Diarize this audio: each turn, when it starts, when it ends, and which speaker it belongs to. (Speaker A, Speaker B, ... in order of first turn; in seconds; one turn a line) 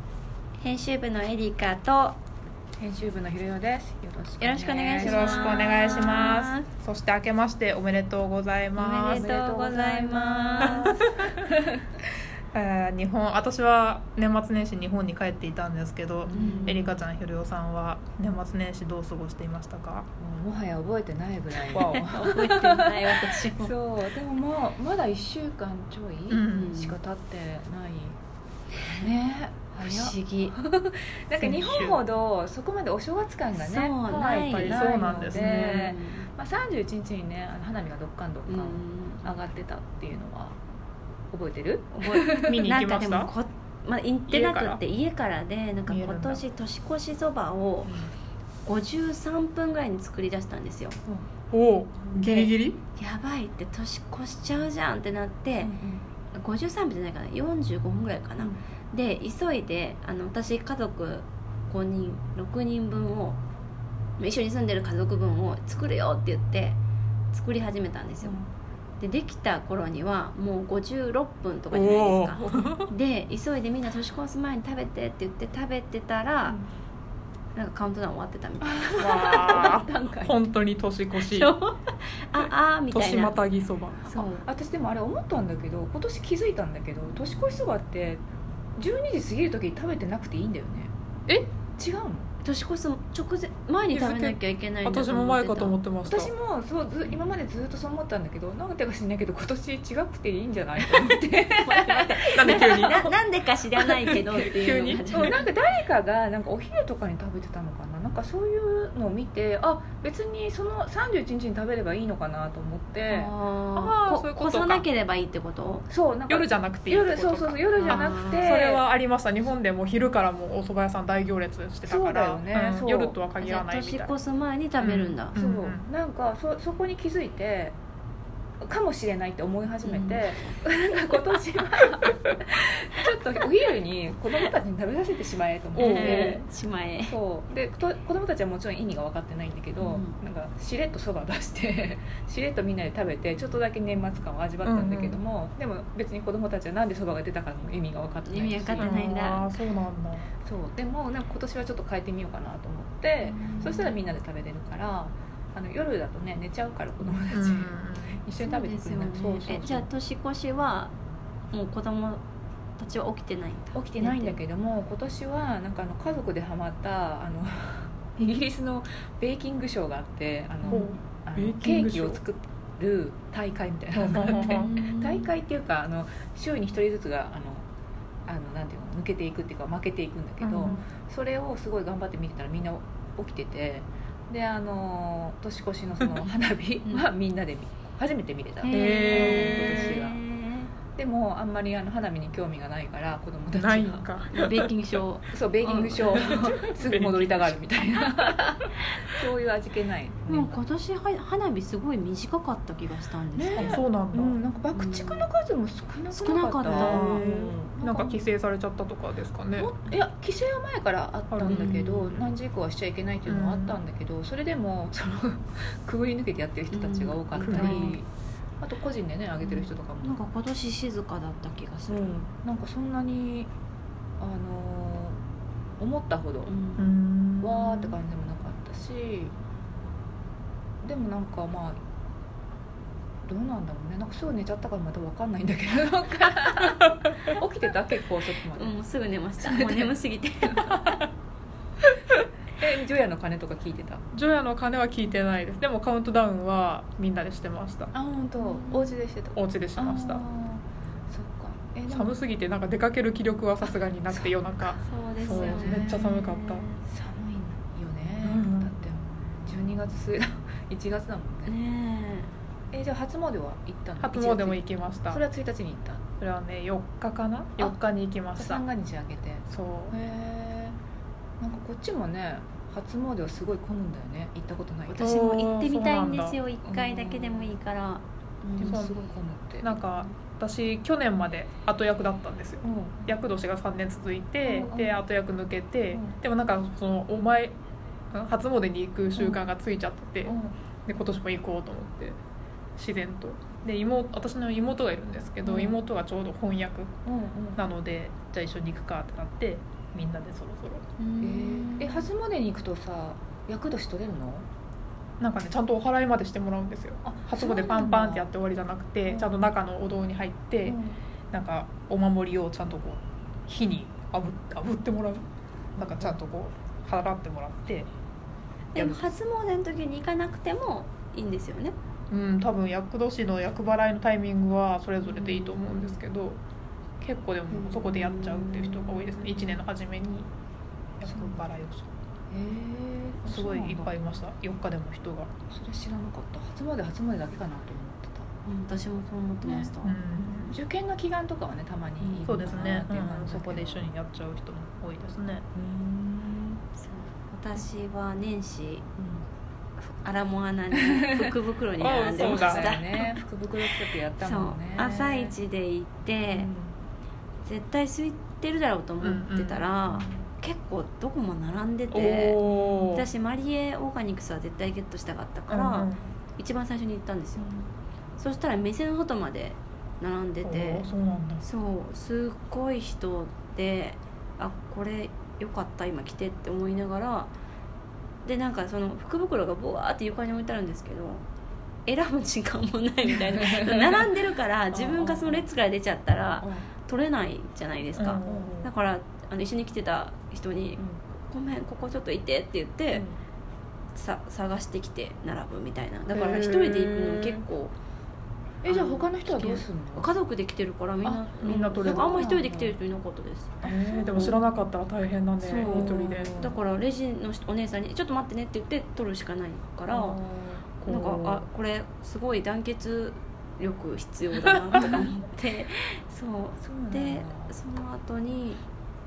Speaker A: 0.6-2.2
Speaker B: 2.8-6.3
Speaker A: 4.4-6.7
Speaker C: 5.0-9.4
Speaker A: 8.8-11.0
Speaker B: 9.1-11.5
Speaker C: 10.6-11.1
Speaker C: 12.5-20.1
Speaker B: 16.3-17.0
Speaker A: 16.3-16.9
Speaker B: 20.2-28.2
Speaker C: 21.7-22.1
Speaker A: 22.1-23.7
Speaker C: 26.3-26.7
Speaker A: 26.5-27.0
Speaker A: 28.8-29.1
Speaker B: 29.0-40.6
Speaker A: 29.8-30.6
Speaker C: 31.4-32.0
Speaker A: 33.5-36.3
Speaker C: 34.4-35.8
Speaker A: 38.5-39.3
Speaker B: 41.3-42.6
Speaker A: 41.9-48.0
Speaker C: 42.4-43.3
Speaker C: 44.3-44.8
Speaker C: 45.9-46.4
Speaker B: 47.9-48.1
Speaker A: 48.6-51.0
Speaker C: 51.5-52.8
Speaker A: 52.1-55.7
Speaker B: 55.6-56.0
Speaker A: 56.3-63.4
Speaker A: 64.2-66.8
Speaker A: 67.3-68.4
Speaker B: 68.2-68.5
Speaker A: 69.0-76.6
Speaker C: 71.7-72.9
Speaker A: 77.5-79.4
Speaker B: 78.6-80.4
Speaker C: 79.0-81.5
Speaker A: 81.2-83.4
Speaker C: 82.4-84.1
Speaker A: 84.1-84.5
Speaker B: 84.1-88.2
Speaker B: 88.8-90.9
Speaker B: 91.8-92.3
Speaker A: 92.4-95.8
Speaker C: 93.9-96.3
Speaker B: 96.1-102.8
Speaker A: 101.6-105.4
Speaker C: 102.3-103.2
Speaker C: 103.8-105.4
Speaker B: 105.1-113.3
Speaker A: 113.1-115.9
Speaker C: 113.8-114.9
Speaker B: 115.9-118.8
Speaker C: 116.3-124.1
Speaker A: 117.8-118.5
Speaker B: 121.8-123.2
Speaker A: 123.4-125.4
Speaker C: 124.8-125.8
Speaker B: 125.3-127.8
Speaker B: 128.6-136.5
Speaker A: 129.8-130.6
Speaker C: 135.8-136.4
Speaker A: 135.8-137.2
Speaker B: 137.1-148.9
Speaker A: 139.8-140.2
Speaker C: 144.6-145.2
Speaker A: 148.3-149.5
Speaker C: 148.8-150.3
Speaker B: 150.4-159.9
Speaker A: 153.3-153.9
Speaker C: 157.3-158.2
Speaker A: 158.4-160.9
Speaker A: 161.5-162.2
Speaker A: 162.8-164.4
Speaker B: 163.7-177.7
Speaker C: 170.6-172.2
Speaker C: 173.9-174.7
Speaker A: 174.2-175.3
Speaker B: 178.3-190.2
Speaker C: 180.4-180.8
Speaker A: 188.6-190.7
Speaker C: 188.7-190.0
Speaker B: 191.0-194.2
Speaker C: 193.5-194.7
Speaker A: 194.3-196.7
Speaker B: 195.3-200.6
Speaker C: 196.2-197.6
Speaker A: 200.3-203.8
Speaker B: 203.4-208.2
Speaker C: 203.6-204.4
Speaker A: 204.7-205.2
Speaker A: 206.1-207.3
Speaker C: 206.7-209.7
Speaker B: 209.6-218.1
Speaker C: 211.3-211.7
Speaker A: 211.4-212.2
Speaker C: 213.3-213.8
Speaker A: 216.7-217.9
Speaker C: 217.4-218.0
Speaker B: 218.6-220.2
Speaker A: 219.4-222.1
Speaker B: 221.9-223.5
Speaker B: 224.2-225.2
Speaker B: 225.8-226.5
Speaker A: 226.5-227.0
Speaker C: 226.8-228.0
Speaker B: 227.4-229.3
Speaker B: 230.8-231.8
Speaker B: 233.3-238.8
Speaker A: 238.6-241.1
Speaker B: 239.4-240.0
Speaker B: 242.6-244.1
Speaker C: 244.1-247.9
Speaker B: 247.9-252.2
Speaker A: 248.4-249.0
Speaker C: 249.3-250.2
Speaker C: 251.9-256.7
Speaker B: 253.7-254.7
Speaker A: 254.8-256.8
Speaker B: 255.2-256.2
Speaker B: 256.9-261.5
Speaker C: 258.2-258.7
Speaker A: 261.5-262.3
Speaker B: 262.7-266.0
Speaker C: 264.0-265.2
Speaker C: 266.2-268.6
Speaker B: 268.4-270.8
Speaker C: 269.5-269.9
Speaker B: 271.4-275.0
Speaker A: 274.9-278.9
Speaker C: 275.0-276.4
Speaker B: 276.6-277.6
Speaker B: 278.6-279.8
Speaker C: 278.6-278.9
Speaker C: 279.6-287.6
Speaker B: 282.6-283.0
Speaker B: 284.5-285.0
Speaker B: 285.9-286.2
Speaker C: 288.1-290.4
Speaker B: 290.2-290.6
Speaker C: 290.9-292.2
Speaker C: 292.8-296.9
Speaker B: 295.4-295.8
Speaker B: 297.1-297.6
Speaker C: 297.6-300.9
Speaker A: 301.0-302.1
Speaker B: 301.2-304.5
Speaker C: 305.2-310.8
Speaker B: 307.0-308.3
Speaker B: 309.1-309.5
Speaker B: 310.6-311.0
Speaker C: 311.3-315.2
Speaker C: 315.8-317.9
Speaker B: 315.8-316.2
Speaker A: 318.8-321.8
Speaker C: 318.8-319.1
Speaker C: 322.1-326.4
Speaker A: 325.1-325.9
Speaker C: 327.0-330.3
Speaker A: 327.5-329.5
Speaker C: 331.0-331.9
Speaker B: 331.1-331.4
Speaker B: 332.3-334.0
Speaker C: 333.2-335.3
Speaker B: 335.5-338.3
Speaker A: 338.5-340.0
Speaker B: 339.4-339.7
Speaker C: 339.8-340.6
Speaker B: 340.5-343.9
Speaker A: 342.0-342.5
Speaker C: 342.3-345.5
Speaker B: 345.6-346.6
Speaker A: 346.8-348.9
Speaker B: 349.0-349.2
Speaker A: 349.8-353.2
Speaker C: 351.8-352.7
Speaker B: 351.9-355.4
Speaker A: 354.2-356.5
Speaker B: 356.3-356.8
Speaker A: 357.4-362.4
Speaker C: 359.0-360.1
Speaker C: 361.9-363.1
Speaker B: 362.4-362.9
Speaker A: 362.9-367.5
Speaker C: 365.5-366.1
Speaker B: 367.4-367.7
Speaker A: 368.2-370.9
Speaker C: 370.4-371.4
Speaker A: 371.4-377.3
Speaker A: 378.2-381.2
Speaker A: 381.9-393.1
Speaker B: 383.1-384.1
Speaker B: 384.7-385.5
Speaker B: 386.4-386.7
Speaker C: 387.9-388.7
Speaker B: 388.2-388.6
Speaker B: 392.9-393.2
Speaker A: 393.9-397.8
Speaker C: 396.1-397.4
Speaker B: 398.6-400.1
Speaker A: 398.7-403.6
Speaker B: 401.0-402.8
Speaker C: 401.4-402.5
Speaker B: 403.6-404.4
Speaker C: 403.6-406.3
Speaker A: 404.1-404.4
Speaker A: 405.4-410.2
Speaker B: 405.6-406.6
Speaker B: 409.9-410.7
Speaker A: 410.8-418.6
Speaker C: 410.8-411.4
Speaker B: 416.6-417.6